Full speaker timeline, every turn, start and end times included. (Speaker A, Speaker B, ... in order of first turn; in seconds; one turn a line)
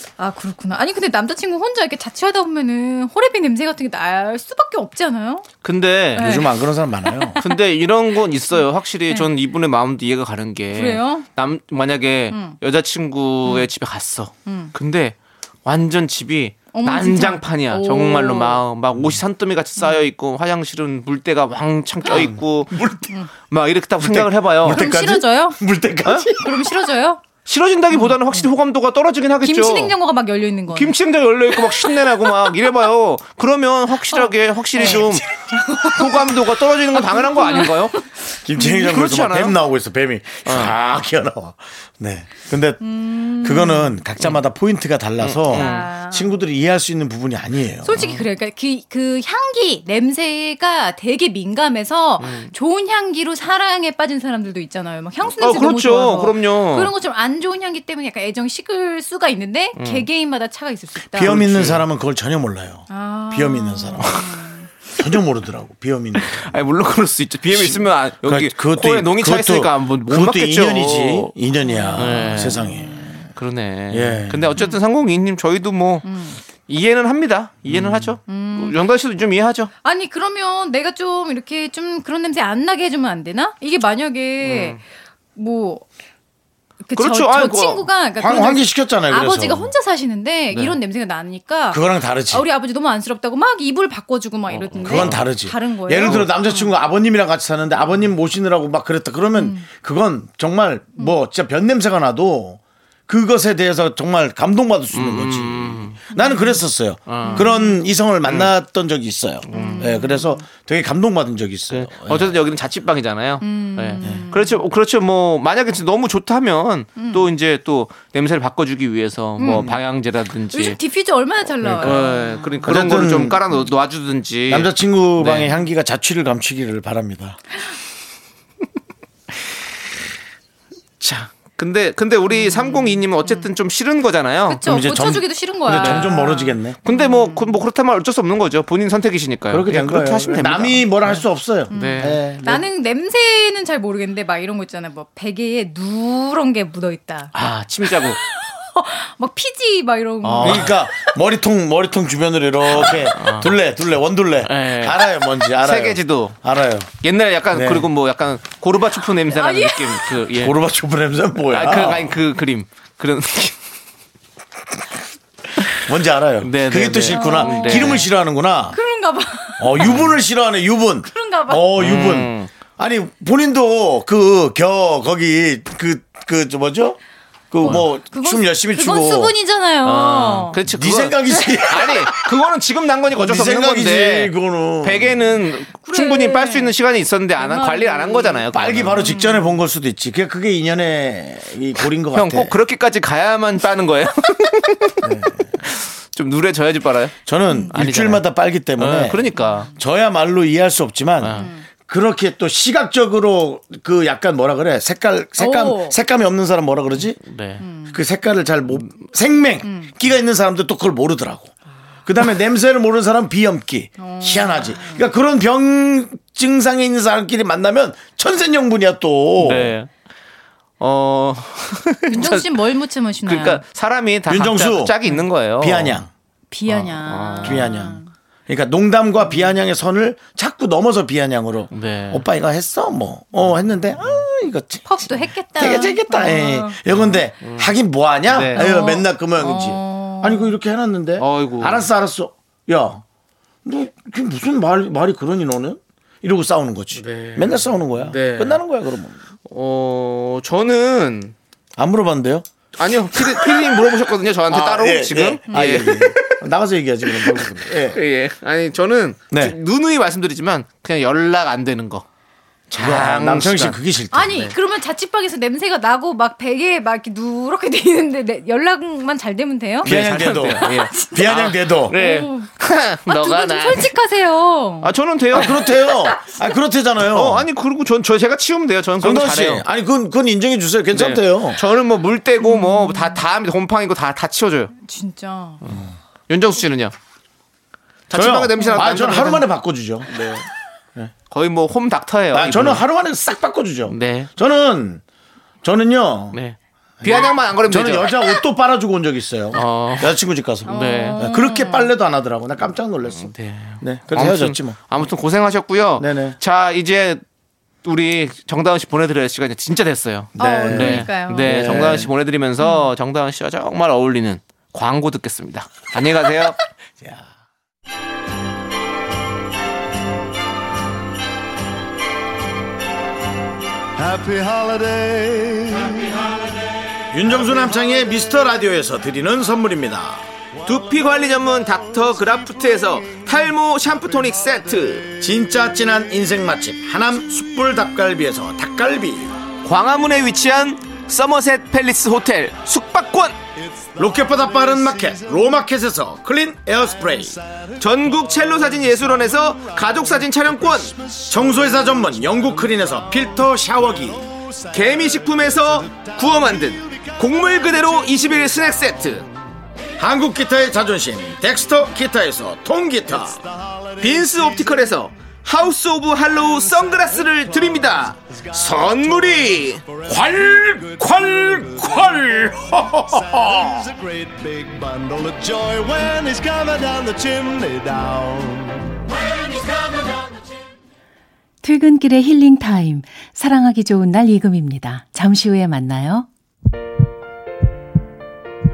Speaker A: 0.2-5.5
Speaker B: 5.6-6.4
Speaker A: 6.2-6.5
Speaker C: 6.2-7.4
Speaker A: 7.0-7.6
Speaker B: 7.4-22.9
Speaker A: 8.5-9.3
Speaker A: 10.7-11.3
Speaker A: 12.3-12.6
Speaker A: 14.5-14.7
Speaker A: 16.7-18.6
Speaker C: 22.1-23.1
Speaker B: 23.5-24.8
Speaker C: 24.0-26.6
Speaker A: 24.7-25.6
Speaker A: 26.4-27.2
Speaker B: 27.5-29.9
Speaker A: 27.9-28.5
Speaker A: 29.4-31.0
Speaker B: 30.7-35.3
Speaker A: 31.5-32.5
Speaker A: 34.1-36.3
Speaker B: 35.8-38.0
Speaker A: 37.0-38.1
Speaker C: 38.4-48.0
Speaker B: 38.7-39.6
Speaker B: 40.5-40.7
Speaker A: 42.8-44.0
Speaker B: 45.2-45.9
Speaker A: 45.5-46.4
Speaker A: 47.8-61.4
Speaker B: 48.0-48.2
Speaker B: 52.2-52.5
Speaker B: 55.3-56.9
Speaker B: 59.8-60.0
Speaker C: 61.1-64.3
Speaker B: 61.2-61.9
Speaker A: 62.9-64.7
Speaker C: 65.0-66.5
Speaker B: 66.2-71.3
Speaker C: 67.5-73.1
Speaker A: 71.6-73.2
Speaker B: 72.0-72.6
Speaker B: 73.4-79.7
Speaker C: 73.9-74.6
Speaker A: 76.0-76.4
Speaker C: 77.7-78.2
Speaker A: 78.3-78.8
Speaker A: 79.8-84.8
Speaker B: 84.4-84.8
Speaker A: 85.4-85.8
Speaker A: 86.8-96.7
Speaker B: 87.0-87.9
Speaker C: 88.2-89.7
Speaker C: 91.7-92.5
Speaker B: 94.5-95.2
Speaker C: 94.8-112.4
Speaker A: 99.3-99.7
Speaker B: 104.9-106.0
Speaker A: 106.1-106.7
Speaker B: 107.1-107.5
Speaker A: 107.2-107.8
Speaker B: 108.3-108.5
Speaker B: 109.5-109.9
Speaker A: 109.5-110.4
Speaker B: 111.7-120.8
Speaker A: 113.4-114.6
Speaker A: 117.0-117.3
Speaker A: 119.4-119.7
Speaker C: 119.5-119.8
Speaker A: 120.5-122.7
Speaker C: 121.6-122.0
Speaker B: 121.8-125.5
Speaker C: 122.7-123.4
Speaker C: 124.5-127.4
Speaker B: 131.0-134.6
Speaker A: 132.3-133.5
Speaker A: 134.5-137.6
Speaker C: 134.6-136.8
Speaker B: 135.7-136.1
Speaker B: 136.8-142.2
Speaker C: 139.5-142.7
Speaker A: 141.7-147.3
Speaker B: 147.3-148.2
Speaker A: 147.8-151.1
Speaker B: 150.2-150.7
Speaker C: 150.4-156.9
Speaker B: 152.8-153.5
Speaker B: 154.4-156.4
Speaker B: 157.0-160.6
Speaker C: 157.5-157.9
Speaker A: 159.3-160.2
Speaker C: 160.3-162.2
Speaker B: 161.5-163.6
Speaker C: 165.7-168.8
Speaker B: 166.4-168.1
Speaker A: 167.1-168.1
Speaker A: 168.7-169.9
Speaker C: 169.6-177.0
Speaker B: 169.8-170.2
Speaker A: 171.1-171.7
Speaker B: 171.8-172.5
Speaker C: 177.5-179.4
Speaker A: 177.6-180.6
Speaker B: 179.8-189.0
Speaker C: 180.7-182.2
Speaker C: 183.1-185.4
Speaker A: 185.8-186.7
Speaker A: 187.4-189.6
Speaker C: 188.5-192.6
Speaker B: 192.1-195.1
Speaker C: 195.0-195.5
Speaker B: 195.6-197.2
Speaker C: 197.3-207.2
Speaker A: 197.5-197.8
Speaker B: 197.7-198.2
Speaker B: 198.8-199.7
Speaker A: 199.4-199.7
Speaker B: 201.2-201.5
Speaker A: 201.3-201.7
Speaker A: 205.4-206.0
Speaker B: 207.2-207.7
Speaker A: 207.6-208.0
Speaker C: 207.8-211.5
Speaker A: 209.6-209.9
Speaker C: 212.1-219.8
Speaker A: 214.0-215.1
Speaker B: 219.4-219.9
Speaker B: 220.8-222.6
Speaker A: 222.1-223.6
Speaker B: 223.3-226.0
Speaker C: 224.3-225.0
Speaker C: 225.6-226.1
Speaker A: 226.5-228.1
Speaker B: 226.7-227.7
Speaker C: 227.4-243.0
Speaker B: 231.7-232.2
Speaker A: 234.9-236.8
Speaker B: 236.9-237.7
Speaker B: 238.3-238.7
Speaker A: 238.6-240.5
Speaker B: 241.2-241.9
Speaker C: 243.7-249.2
Speaker B: 246.9-248.6
Speaker B: 249.5-251.3
Speaker C: 251.8-252.4
Speaker B: 252.8-256.4
Speaker C: 253.1-253.8
Speaker C: 254.5-258.0
Speaker A: 255.5-255.9
Speaker B: 257.1-262.1
Speaker B: 262.7-263.8
Speaker C: 262.7-264.5
Speaker A: 264.1-269.9
Speaker C: 269.8-271.9
Speaker B: 269.8-273.9
Speaker A: 270.6-271.3
Speaker A: 271.9-272.5
Speaker A: 273.1-274.9
Speaker B: 274.8-275.6
Speaker C: 275.3-277.5
Speaker B: 277.1-279.6
Speaker C: 279.0-281.6
Speaker B: 280.9-284.7
Speaker A: 282.4-283.2
Speaker A: 284.8-285.6
Speaker B: 285.6-286.9
Speaker B: 288.1-289.5
Speaker C: 288.1-290.4
Speaker B: 290.1-290.5
Speaker B: 291.3-292.8
Speaker C: 292.3-295.0
Speaker B: 293.9-294.3
Speaker C: 295.6-296.4
Speaker B: 296.3-298.1
Speaker C: 297.0-304.8
Speaker B: 299.5-301.2
Speaker A: 300.7-301.9
Speaker B: 303.1-307.2
Speaker C: 306.0-306.4
Speaker B: 307.8-316.6
Speaker C: 310.4-312.1
Speaker A: 310.4-312.0
Speaker A: 312.6-312.9
Speaker D: 324.0-326.6
Speaker C: 327.1-330.3
Speaker D: 327.4-327.9
Speaker B: 330.7-335.1
Speaker D: 330.7-335.2
Speaker C: 335.2-339.3
Speaker B: 339.6-343.4
Speaker D: 343.6-345.6
Speaker C: 344.0-347.4
Speaker D: 346.8-359.3
Speaker B: 347.8-350.9
Speaker C: 351.3-354.3
Speaker B: 354.7-359.3
Speaker C: 360.0-363.4
Speaker D: 363.1-364.9
Speaker B: 364.0-369.8
Speaker D: 366.4-380.1
Speaker C: 370.1-373.9
Speaker E: 381.6-386.3